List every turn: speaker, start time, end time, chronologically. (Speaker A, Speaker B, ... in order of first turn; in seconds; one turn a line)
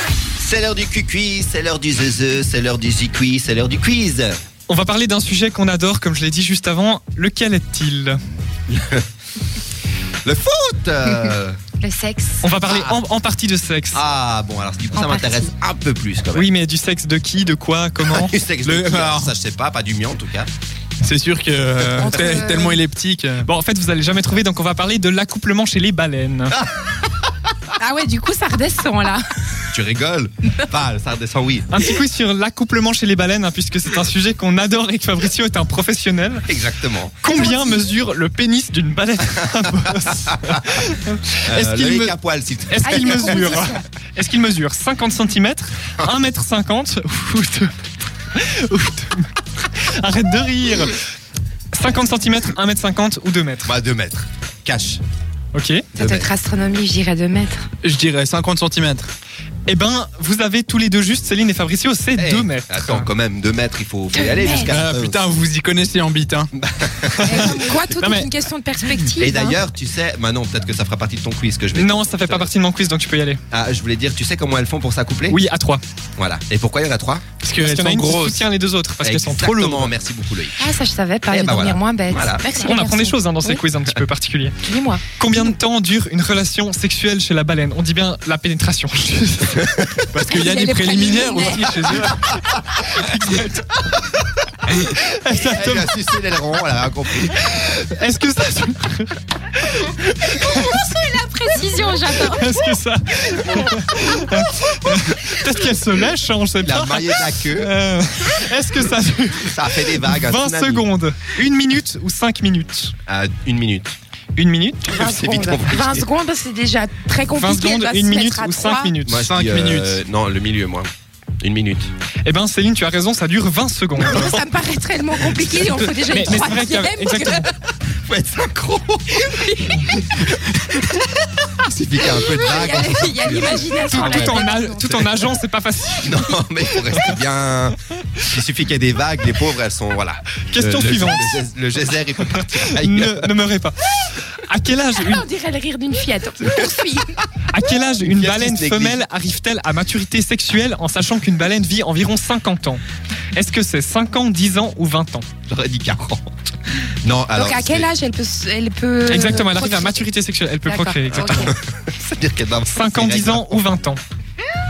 Speaker A: 0.4-4.4
Speaker B: 4.7-8.2
Speaker A: 8.7-9.0
Speaker A: 10.2-11.6
Speaker C: 11.8-12.4
Speaker B: 12.4-14.0
Speaker A: 12.6-13.0
Speaker A: 13.9-16.5
Speaker C: 14.9-15.5
Speaker B: 16.3-18.3
Speaker A: 18.0-20.5
Speaker D: 18.6-19.3
Speaker D: 21.0-23.5
Speaker C: 21.9-22.8
Speaker B: 23.4-26.6
Speaker A: 26.5-27.0
Speaker C: 27.8-29.2
Speaker A: 29.7-31.8
Speaker B: 31.7-36.5
Speaker A: 36.5-37.2
Speaker B: 37.2-42.1
Speaker C: 37.3-37.8
Speaker A: 41.4-43.6
Speaker B: 42.7-47.7
Speaker C: 42.8-43.8
Speaker B: 48.3-51.0
Speaker B: 51.7-53.7
Speaker A: 53.6-55.0
Speaker B: 55.5-55.9
Speaker A: 55.9-56.3
Speaker C: 55.9-57.7
Speaker D: 57.8-59.1
Speaker B: 59.7-63.1
Speaker A: 62.2-65.2
Speaker C: 64.1-64.8
Speaker D: 64.7-66.5
Speaker A: 66.5-67.8
Speaker B: 67.1-68.3
Speaker C: 67.2-69.6
Speaker A: 69.2-72.5
Speaker B: 71.7-73.4
Speaker A: 73.5-75.4
Speaker B: 75.3-75.8
Speaker A: 76.2-77.2
Speaker D: 77.4-78.4
Speaker B: 77.5-79.9
Speaker A: 79.0-80.7
Speaker C: 80.6-83.6
Speaker A: 81.3-82.4
Speaker B: 82.4-84.5
Speaker C: 84.6-85.0
Speaker B: 85.1-89.9
Speaker D: 90.1-92.2
Speaker C: 90.2-92.1
Speaker B: 91.6-92.2
Speaker B: 92.8-93.7
Speaker B: 94.7-96.0
Speaker A: 95.3-97.3
Speaker B: 97.2-100.8
Speaker C: 100.2-102.6
Speaker B: 102.1-112.9
Speaker A: 106.6-107.7
Speaker A: 109.4-110.8
Speaker A: 113.0-113.9
Speaker B: 114.3-115.0
Speaker A: 114.9-116.1
Speaker C: 114.9-119.0
Speaker B: 117.3-119.3
Speaker A: 119.0-120.9
Speaker D: 119.2-120.0
Speaker A: 121.4-121.9
Speaker B: 122.2-124.4
Speaker C: 124.0-127.5
Speaker B: 125.5-127.5
Speaker A: 128.1-134.4
Speaker C: 129.3-129.8
Speaker C: 132.2-135.3
Speaker B: 133.9-137.2
Speaker A: 136.0-143.3
Speaker B: 140.5-141.4
Speaker B: 142.3-145.2
Speaker C: 144.9-147.1
Speaker B: 147.5-152.8
Speaker A: 148.0-149.0
Speaker B: 153.3-155.3
Speaker A: 155.5-156.5
Speaker A: 157.0-157.9
Speaker C: 157.3-160.1
Speaker B: 159.1-161.5
Speaker C: 160.6-161.5
Speaker A: 161.3-163.7
Speaker B: 162.7-164.0